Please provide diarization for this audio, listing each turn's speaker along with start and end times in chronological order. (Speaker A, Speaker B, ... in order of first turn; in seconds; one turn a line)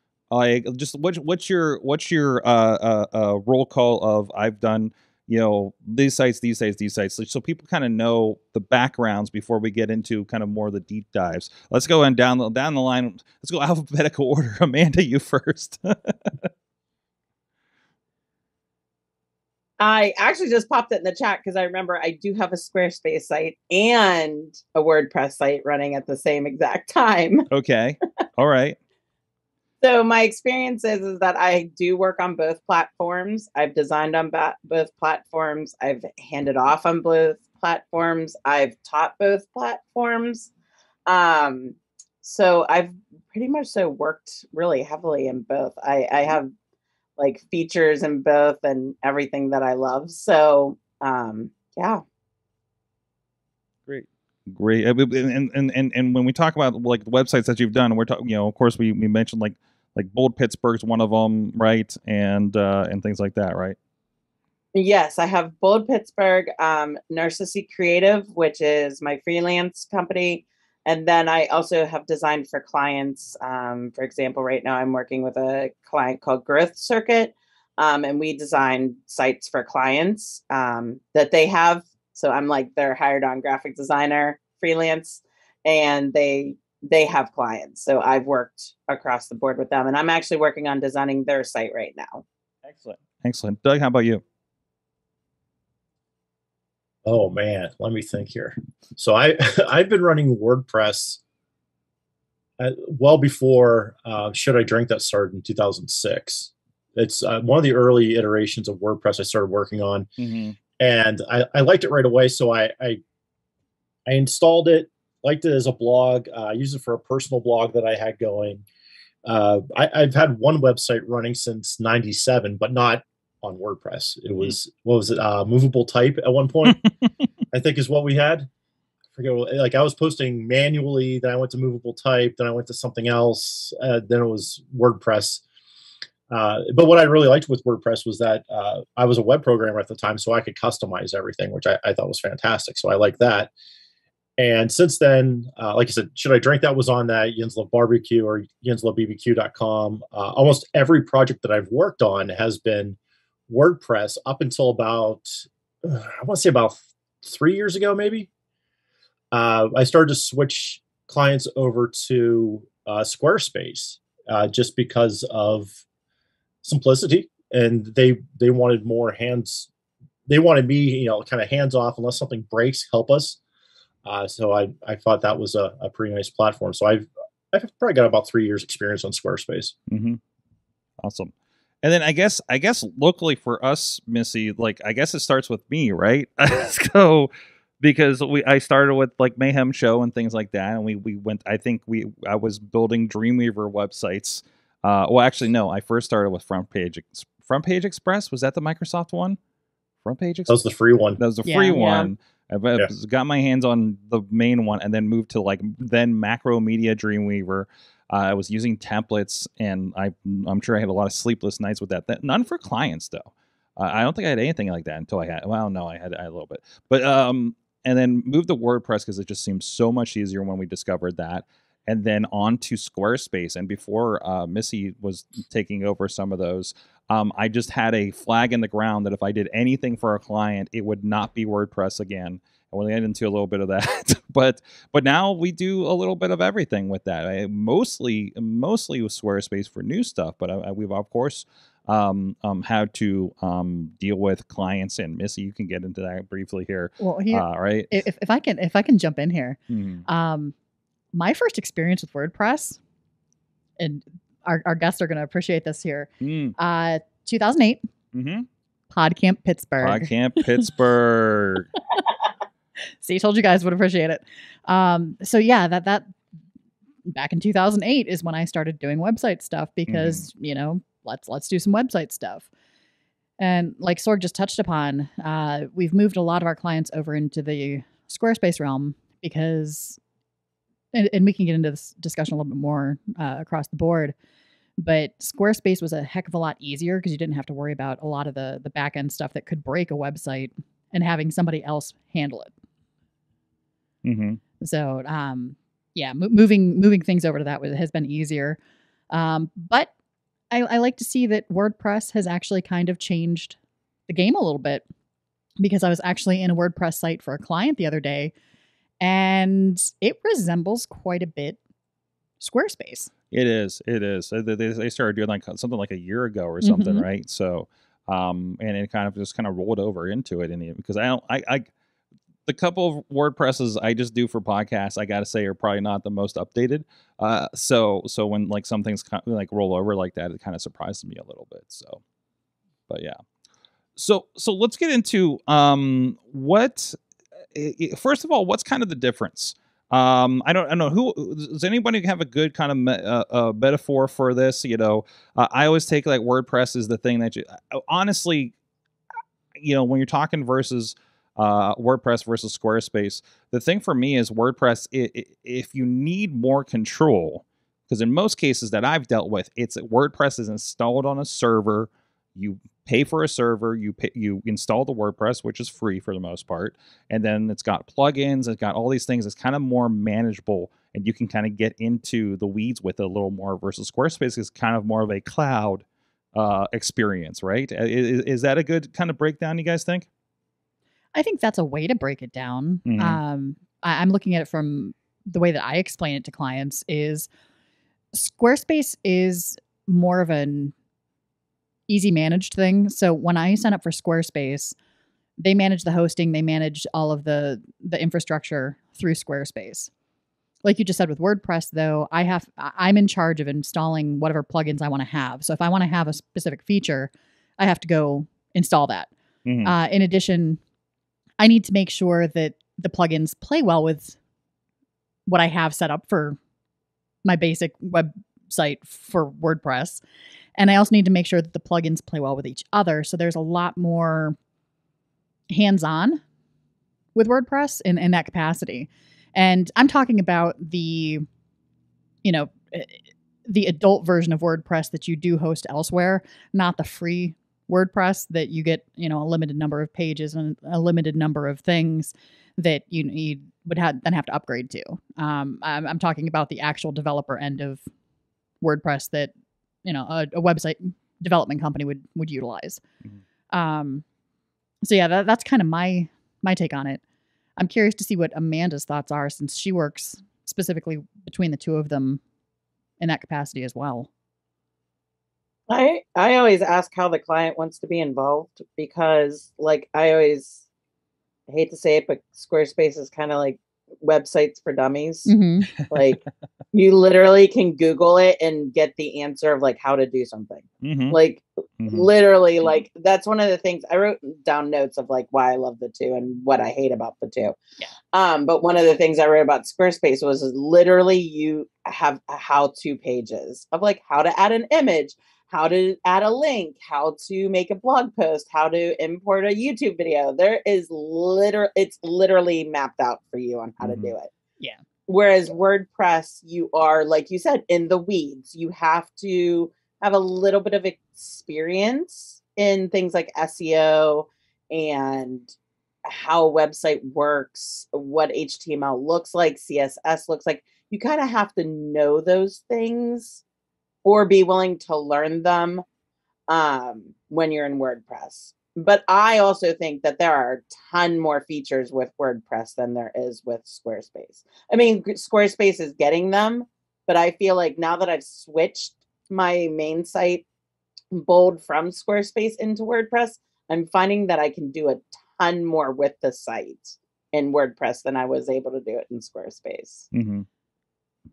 Speaker A: 0.3-16.5
Speaker B: 19.8-27.5
Speaker A: 27.5-28.8
Speaker B: 29.8-40.5
Speaker B: 41.1-46.5
Speaker B: 47.2-52.0
Speaker A: 53.9-63.8
Speaker B: 64.7-92.2
Speaker A: 92.6-94.2
Speaker C: 97.0-101.2
Speaker C: 102.6-110.1
Speaker A: 110.2-110.6
Speaker C: 110.8-113.0
Speaker C: 114.1-118.6
Speaker C: 119.2-126.8
Speaker C: 127.5-128.5
Speaker C: 129.1-135.4
Speaker C: 136.3-143.5
Speaker C: 144.4-153.0
Speaker C: 153.5-158.3
Speaker C: 159.3-165.7
Speaker C: 166.6-169.7
Speaker C: 170.3-173.4
Speaker C: 174.0-179.7
Speaker A: 179.9-180.2
Speaker A: 181.0-199.4
Speaker A: 200.0-200.6
Speaker C: 200.5-201.2
Speaker A: 201.2-248.0
Speaker D: 201.4-201.8
Speaker B: 201.7-202.1
Speaker D: 247.0-250.5
Speaker A: 249.7-250.0
Speaker D: 251.1-252.8
Speaker D: 253.8-257.8
Speaker A: 256.2-256.5
Speaker A: 258.1-258.5
Speaker D: 258.9-260.1
Speaker A: 259.8-261.7
Speaker D: 263.0-266.1
Speaker D: 267.1-272.5
Speaker A: 269.9-270.2
Speaker D: 273.4-280.0
Speaker D: 280.9-284.1
Speaker D: 284.8-292.5
Speaker A: 294.0-294.4
Speaker D: 294.6-298.6
Speaker D: 299.1-299.9
Speaker D: 300.5-303.6
Speaker D: 304.1-304.8
Speaker D: 305.6-308.3
Speaker D: 309.0-311.6
Speaker D: 312.4-313.1
Speaker A: 313.3-321.7
Speaker D: 316.6-317.0
Speaker A: 322.4-332.0
Speaker A: 332.9-333.2
Speaker A: 333.9-337.0
Speaker A: 337.5-348.5
Speaker A: 349.6-380.1
Speaker D: 381.1-387.3
Speaker A: 382.8-383.2
Speaker D: 388.1-390.7
Speaker D: 391.9-394.7
Speaker D: 395.4-399.9
Speaker D: 400.6-409.1
Speaker A: 409.4-409.7
Speaker D: 409.6-410.6
Speaker D: 411.4-414.1
Speaker D: 415.3-416.4
Speaker D: 417.2-420.0
Speaker D: 420.6-424.4
Speaker D: 425.5-426.2
Speaker D: 427.1-431.2
Speaker D: 432.2-447.8
Speaker D: 448.6-449.3
Speaker D: 449.8-452.8
Speaker D: 453.5-454.0
Speaker D: 454.8-457.0
Speaker D: 457.6-462.2
Speaker D: 463.0-464.1
Speaker B: 465.7-470.6
Speaker B: 471.5-476.2
Speaker D: 475.3-475.7
Speaker B: 476.7-487.6
Speaker A: 480.8-481.2
Speaker A: 481.8-482.1
Speaker B: 488.1-504.3
Speaker A: 503.8-504.1
Speaker B: 505.1-515.5
Speaker B: 516.0-523.4
Speaker B: 524.0-525.8
Speaker B: 526.5-540.4
Speaker B: 541.1-550.1
Speaker A: 550.1-550.5